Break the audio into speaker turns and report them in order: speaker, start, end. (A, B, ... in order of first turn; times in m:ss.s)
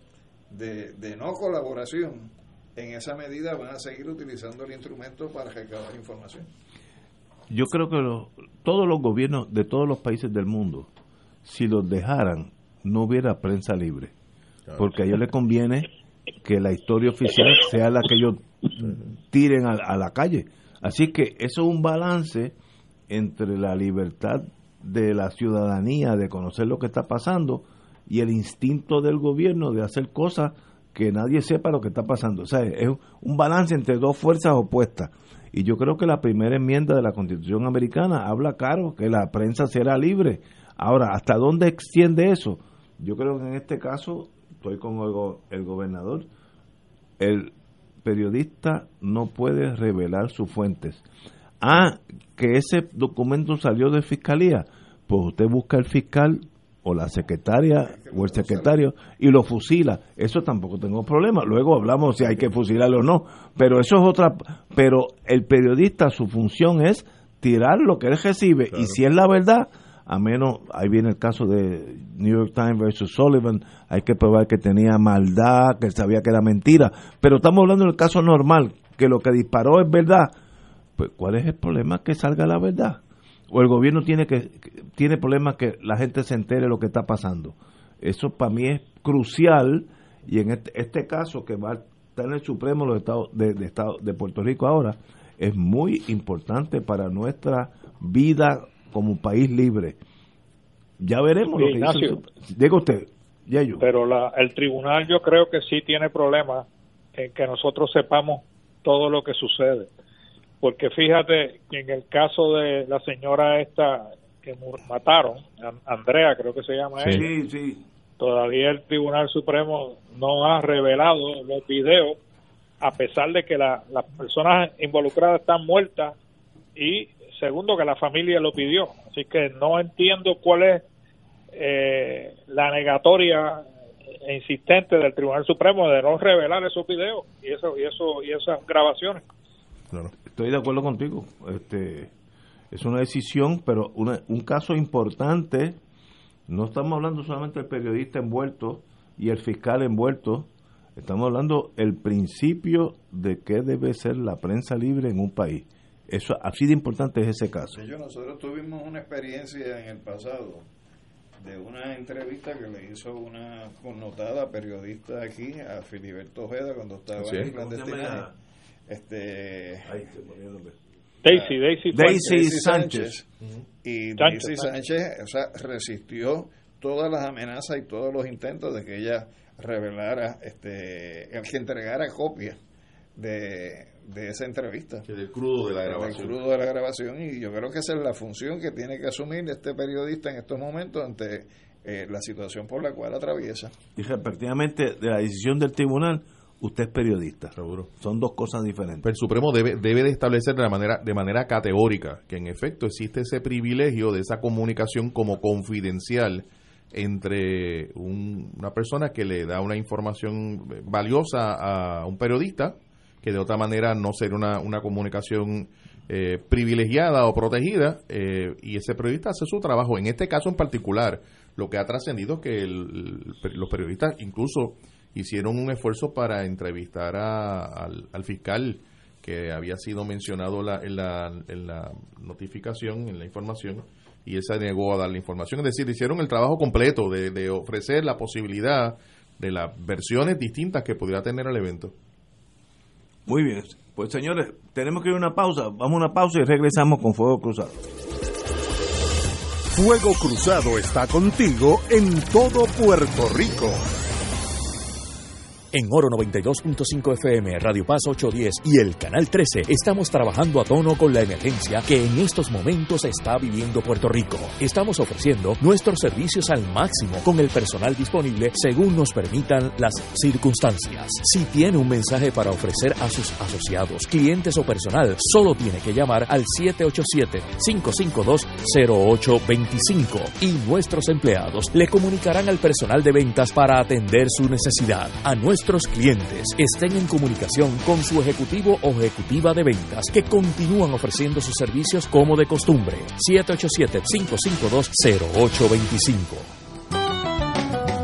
0:00.5-0:06.5 A
0:07.5-0:10.9 B
0:11.4-0:14.1 B
0:14.8-0:15.9 B
0:16.4-0:22.5 B
0:23.1-0:46.3 B
0:47.2-0:47.5 B
0:48.0-0:51.0 B
0:51.6-1:20.3 B
0:57.8-0:58.8 A
1:21.0-1:40.0 B
1:41.0-1:43.8 B
1:41.5-1:42.2 C
1:43.8-1:46.6 C
1:47.2-1:49.9 C
1:50.6-1:57.2 C
1:57.0-1:57.2 D
1:57.1-1:57.8 B
1:58.2-2:02.2 C
2:02.8-2:06.1 C
2:06.8-2:10.8 C
2:11.5-2:13.6 C
2:14.2-2:19.2 C
2:20.2-2:22.1 B
2:22.7-2:25.8 B
2:26.5-2:37.8 B
2:37.7-2:40.6 A
2:41.4-2:48.3 A
2:47.1-2:48.3 B
2:48.9-2:49.9 A
2:49.8-2:50.8 B
2:51.2-2:52.5 C
2:51.2-2:53.2 A
2:51.9-2:53.2 B
2:53.8-3:02.6 A
2:54.2-2:54.7 C
3:03.2-3:05.0 A
3:05.0-3:06.4 D
3:05.6-3:13.7 A
3:14.0-3:19.0 B
3:17.6-3:17.9 D
3:19.0-4:01.9 D
4:03.3-4:07.8 B
4:09.7-4:13.9 E
4:15.7-4:56.5 F